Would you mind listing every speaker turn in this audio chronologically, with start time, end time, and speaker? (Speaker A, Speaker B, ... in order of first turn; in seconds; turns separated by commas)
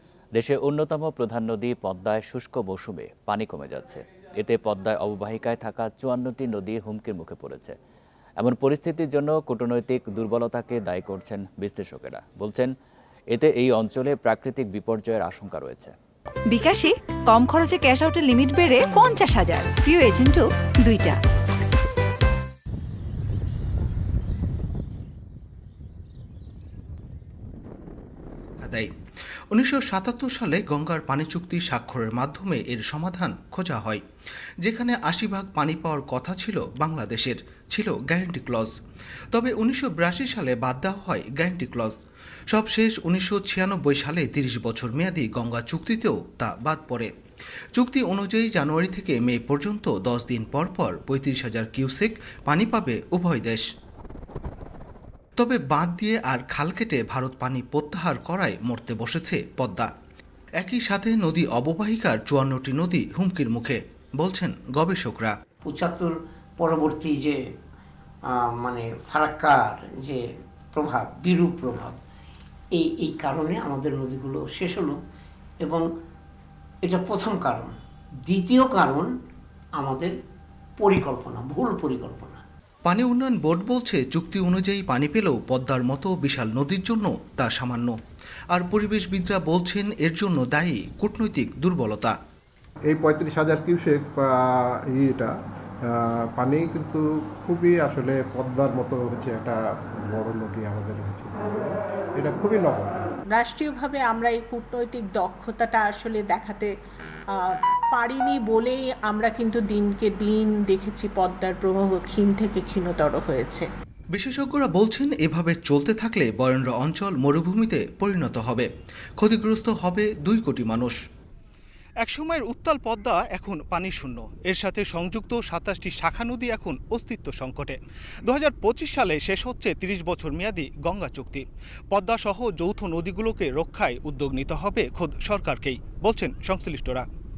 Speaker A: 0.3-7.7, Speaker A: 8.4-12.7, Speaker A: 13.3-15.9, Speaker B: 16.5-21.2, Speaker C: 28.6-28.9, Speaker C: 29.5-34.0, Speaker C: 34.6-38.7, Speaker C: 39.3-41.9, Speaker C: 42.5-47.1, Speaker C: 47.7-53.6, Speaker C: 55.4-59.9, Speaker C: 60.6-65.3, Speaker D: 65.7-67.4, Speaker D: 68.3-70.2, Speaker D: 70.7-72.0, Speaker D: 72.8-75.0, Speaker D: 76.8-77.7, Speaker D: 78.2-79.1, Speaker D: 79.8-80.1, Speaker D: 80.8-82.4, Speaker C: 82.8-87.9, Speaker C: 88.5-92.1, Speaker E: 92.9-94.3, Speaker E: 94.9-95.3, Speaker E: 95.9-99.6, Speaker E: 100.1-103.1, Speaker F: 103.3-106.7, Speaker F: 107.4-113.7, Speaker C: 114.1-118.7, Speaker C: 119.2-121.0, Speaker C: 122.0-137.1